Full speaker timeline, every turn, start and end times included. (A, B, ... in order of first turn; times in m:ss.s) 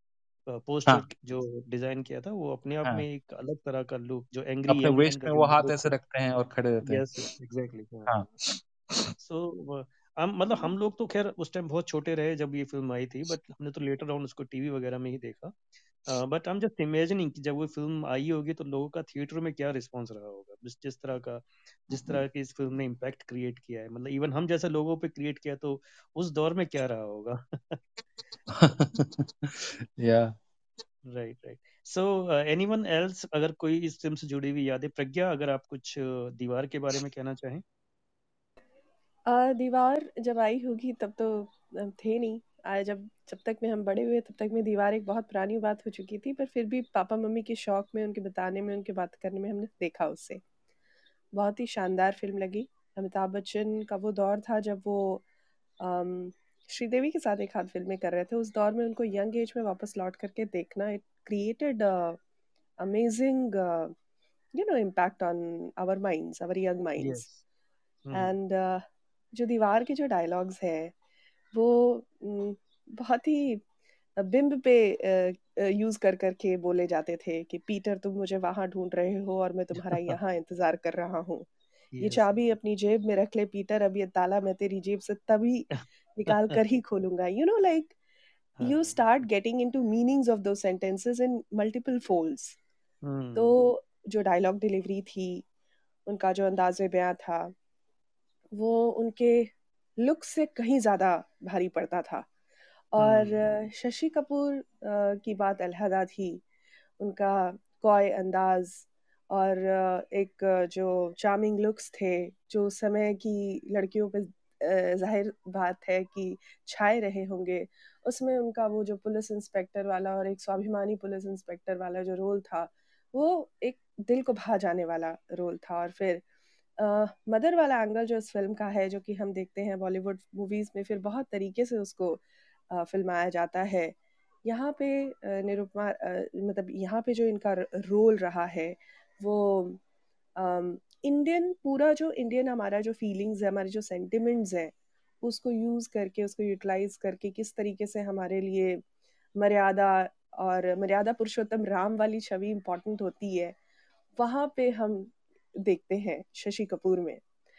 0:00.5-0:05.9 A
0:04.7-0:07.2 B
0:06.8-0:08.3 A
0:08.1-0:09.1 B
0:09.2-0:27.8 A
0:28.5-0:30.4 B
0:31.1-0:37.6 A
0:39.3-0:50.4 C
0:51.3-0:55.2 C
0:55.8-1:02.2 C
1:02.8-1:03.9 C
1:04.5-1:07.3 C
1:07.0-1:07.4 A
1:08.1-1:08.4 A
1:08.1-1:10.9 C
1:11.5-1:13.6 C
1:14.2-1:21.5 C
1:19.8-1:20.2 A
1:21.9-1:22.5 A
1:22.0-1:28.0 C
1:25.7-1:26.6 A
1:28.6-1:29.0 A
1:28.6-1:32.6 C
1:33.0-1:33.6 A
1:33.4-1:35.4 C
1:36.1-1:37.5 C
1:38.5-1:42.3 C
1:42.9-1:46.4 C
1:43.0-1:43.4 A
1:47.0-2:06.2 C
2:06.8-2:19.8 C
2:20.4-2:28.8 C
2:29.4-2:33.6 C
2:34.2-2:37.2 C